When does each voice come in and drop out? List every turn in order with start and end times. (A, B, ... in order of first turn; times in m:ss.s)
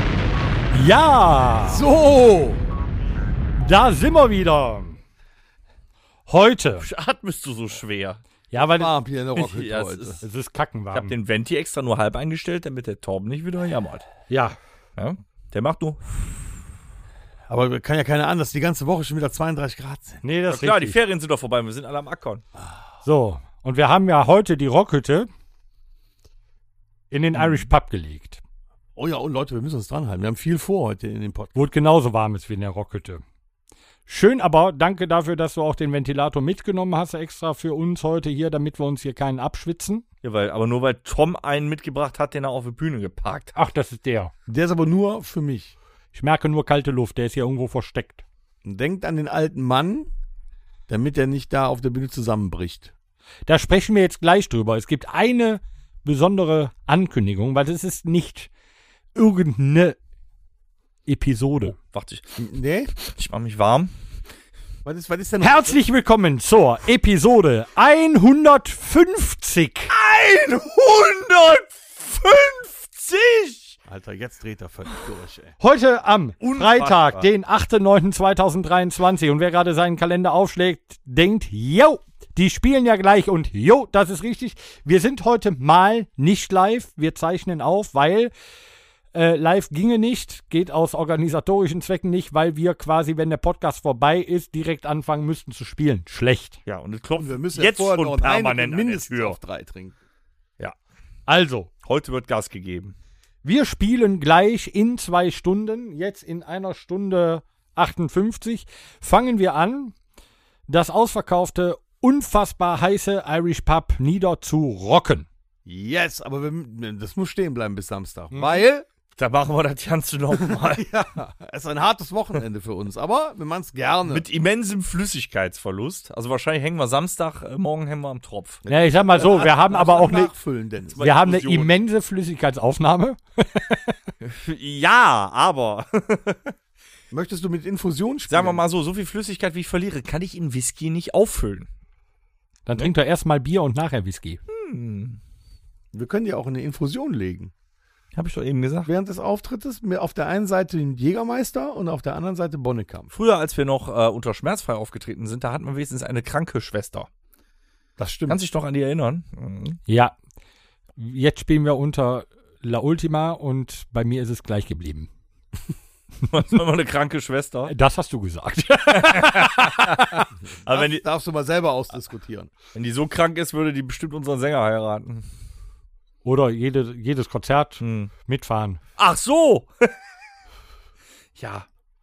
0:00.7-0:01.8 A
0:01.7-0:02.6 B
0:03.6-0:05.0 A
0:06.3-0:06.9 A
0:06.8-0:08.2 C
0:08.5-0:09.0 A
0:08.7-0:10.2 B
0:09.4-0:10.2 C
0:10.2-0:11.1 A
0:10.9-0:14.1 C
0:14.3-0:14.6 A
0:15.0-0:16.4 C
0:17.5-0:20.2 B
0:20.2-0:21.0 A
0:20.5-0:22.4 C
0:23.0-0:25.3 A
0:27.1-0:28.4 A
0:27.4-0:27.6 C
0:29.0-0:31.5 B
0:31.6-0:33.2 A
0:34.1-0:40.0 A
0:40.2-0:43.6 C
0:43.6-0:44.3 A
0:44.5-0:45.8 B
0:46.1-0:48.2 A
0:48.6-0:50.1 B
0:50.9-0:52.9 B
0:53.5-0:58.5 A
0:59.2-1:00.0 A
1:01.1-1:01.8 A
1:01.8-1:02.3 C
1:02.4-1:02.9 B
1:03.0-1:03.9 C
1:04.8-1:05.8 B
1:05.4-1:09.9 A
1:09.9-1:13.8 C
1:13.9-1:15.6 B
1:15.6-1:28.3 A
1:16.4-1:17.3 C
1:29.1-1:36.6 A
1:36.7-1:39.4 C
1:37.2-1:40.0 B
1:41.3-1:41.7 A
1:41.8-1:43.0 C
1:43.4-1:50.0 A
1:50.7-1:55.3 A
1:55.7-1:58.9 B
1:58.3-1:58.6 A
1:59.2-2:00.9 C
2:00.3-2:04.3 B
2:04.1-2:08.6 C
2:08.6-2:11.0 B
2:08.7-2:10.3 A
2:10.9-2:11.7 C
2:11.0-2:14.0 A
2:14.2-2:16.5 C
2:17.1-2:18.6 B
2:18.3-2:21.7 C
2:22.7-2:24.4 A
2:24.5-2:25.2 C
2:25.9-2:27.5 B
2:28.1-2:28.9 C
2:28.8-2:33.1 B
2:33.1-2:37.1 C
2:38.0-2:38.4 B
2:38.3-2:39.8 C
2:39.9-2:40.2 A
2:41.0-2:45.1 A
2:46.3-2:47.7 C
2:47.7-2:50.3 A
2:48.9-2:51.0 C
2:50.5-2:52.5 B
2:52.7-2:55.2 C
2:56.2-2:58.8 A
2:57.8-2:58.1 C
2:59.0-2:59.9 C
3:01.4-3:01.7 C